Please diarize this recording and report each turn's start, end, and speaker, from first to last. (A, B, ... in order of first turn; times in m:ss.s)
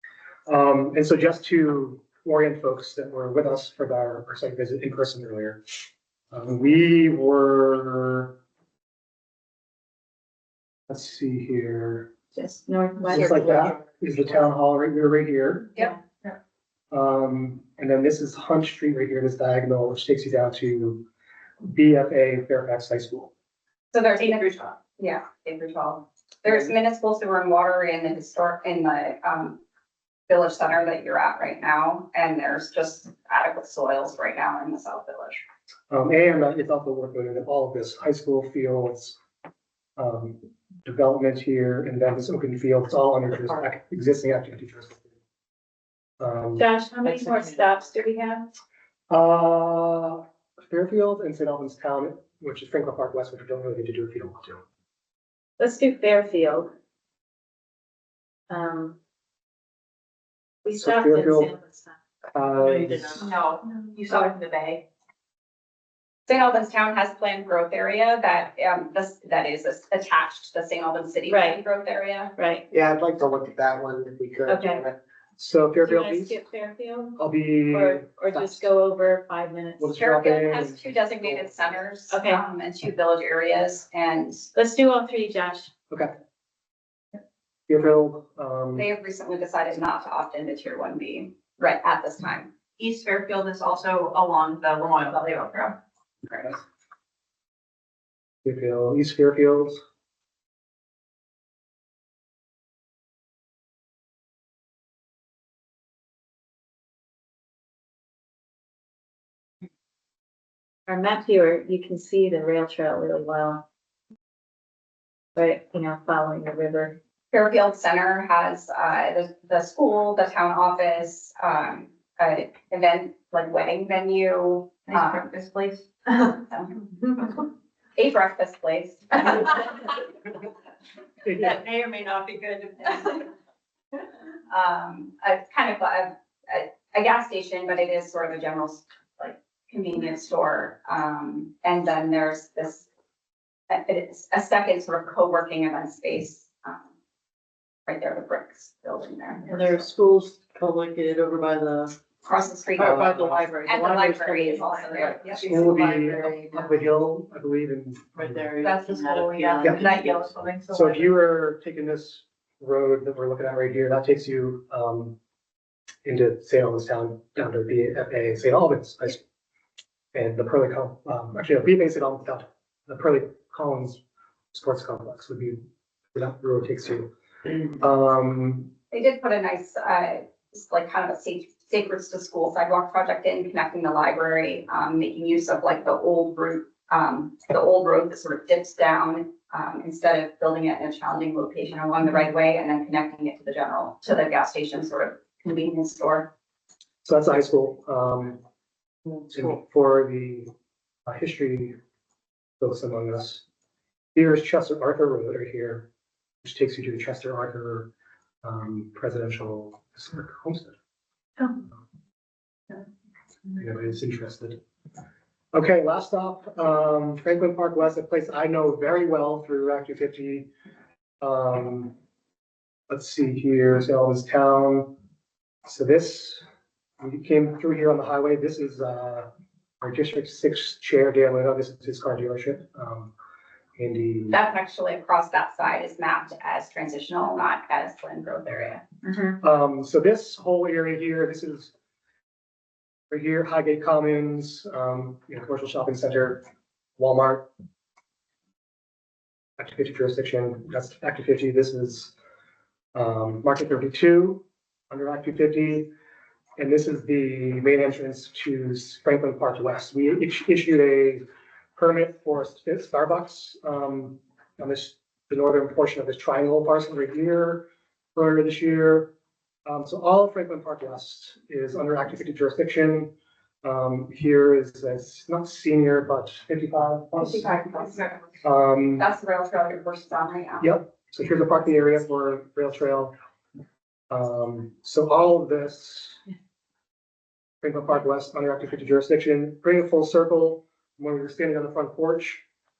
0:00.5-0:05.6 A
0:06.3-0:08.3 A
0:10.9-0:12.1 A
0:12.4-0:13.7 B
0:13.1-0:15.7 A
0:16.9-0:21.0 A
0:21.6-0:23.3 A
0:23.9-0:29.6 C
0:30.3-0:35.4 C
0:35.9-0:39.2 A
0:40.0-0:45.0 A
0:46.2-0:46.7 A
0:46.6-0:48.5 B
0:49.1-0:54.6 A
0:55.6-0:56.7 B
0:58.5-0:59.0 B
1:00.6-1:01.9 B
1:00.7-1:01.5 A
1:02.3-1:03.3 A
1:02.6-1:03.2 D
1:03.2-1:04.8 E
1:06.3-1:12.3 C
1:11.3-1:11.6 B
1:12.4-1:12.6 B
1:12.7-1:15.0 F
1:14.4-1:14.8 B
1:15.4-1:16.4 A
1:15.8-1:17.2 B
1:17.2-1:18.6 A
1:17.7-1:19.9 B
1:19.8-1:21.5 A
1:20.0-1:24.5 C
1:22.1-1:22.4 B
1:24.5-1:25.7 B
1:27.7-1:28.9 A
1:28.8-1:32.5 C
1:32.8-1:35.8 E
1:36.3-1:36.5 C
1:38.4-1:39.8 A
1:50.9-1:53.6 B
1:55.4-1:57.0 B
1:57.3-2:05.3 C
2:04.9-2:06.3 E
2:06.5-2:07.4 C
2:08.0-2:10.0 C
2:11.2-2:11.6 A
2:11.4-2:13.2 E
2:14.5-2:22.9 C
2:23.7-2:26.9 C
2:27.9-2:29.8 C
2:29.5-2:32.0 D
2:32.2-2:35.7 C
2:32.8-2:36.5 D
2:35.3-2:38.4 A
2:38.2-2:40.3 D
2:38.6-2:41.1 E
2:40.7-2:45.2 A
2:46.0-2:49.2 A
2:50.1-2:54.0 A
2:54.5-2:55.6 A
2:56.1-2:58.7 A
2:58.9-3:16.3 C
3:17.0-3:18.4 A
3:19.3-3:20.5 A
3:21.1-3:21.8 A
3:22.6-3:23.4 A
3:24.2-3:25.9 A
3:26.4-3:27.9 A
3:28.4-3:30.7 A
3:33.6-3:34.6 A
3:35.5-3:40.5 A
3:41.2-3:41.9 A
3:42.9-3:44.9 A
3:45.6-3:46.4 A
3:47.0-3:49.3 A
3:49.8-3:53.1 A
3:53.8-3:54.4 A
3:54.3-3:58.8 C
3:59.4-4:01.7 A
4:03.1-4:06.4 A
4:07.0-4:07.5 A
4:09.6-4:12.1 A
4:12.9-4:15.9 A
4:16.6-4:21.2 A
4:21.8-4:29.1 A
4:29.6-4:33.1 A
4:33.6-4:37.5 A
4:37.2-4:38.2 C
4:38.4-4:39.1 A
4:39.0-4:40.7 C
4:40.6-4:43.1 A
4:44.1-4:46.2 A
4:47.6-4:52.4 A